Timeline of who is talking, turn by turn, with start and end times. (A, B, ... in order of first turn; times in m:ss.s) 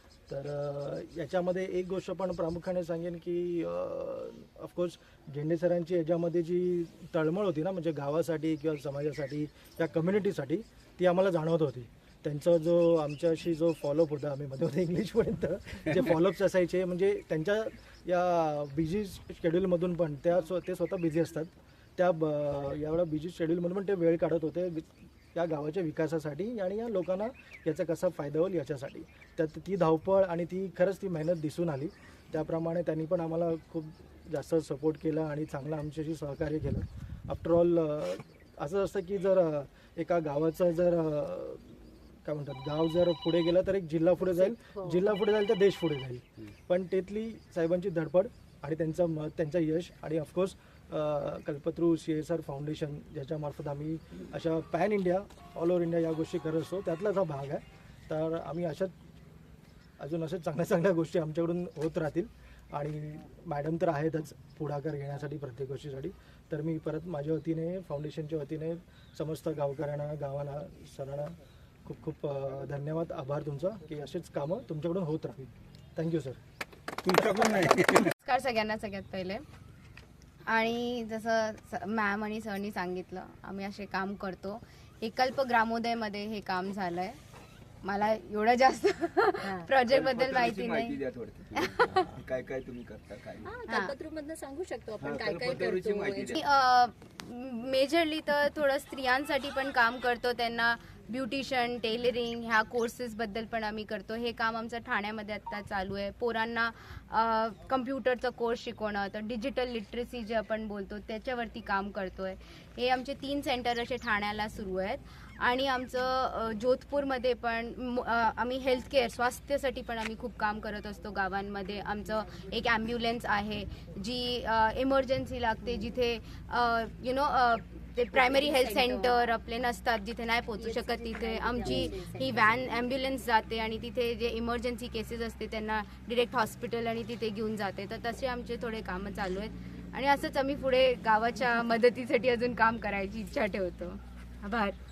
0:00.3-0:58.9 A
0:44.2-0:45.1 B
1:00.0-1:11.3 A
1:11.8-1:16.4 A
1:18.2-1:19.4 C
1:20.5-1:27.2 C
1:27.8-1:32.2 C
1:29.4-1:29.7 B
1:29.9-1:33.4 D
1:33.4-1:36.4 B
1:33.7-1:33.9 C
1:35.0-1:36.4 D
1:36.3-2:24.8 C
2:08.1-2:09.4 B
2:10.6-2:12.6 B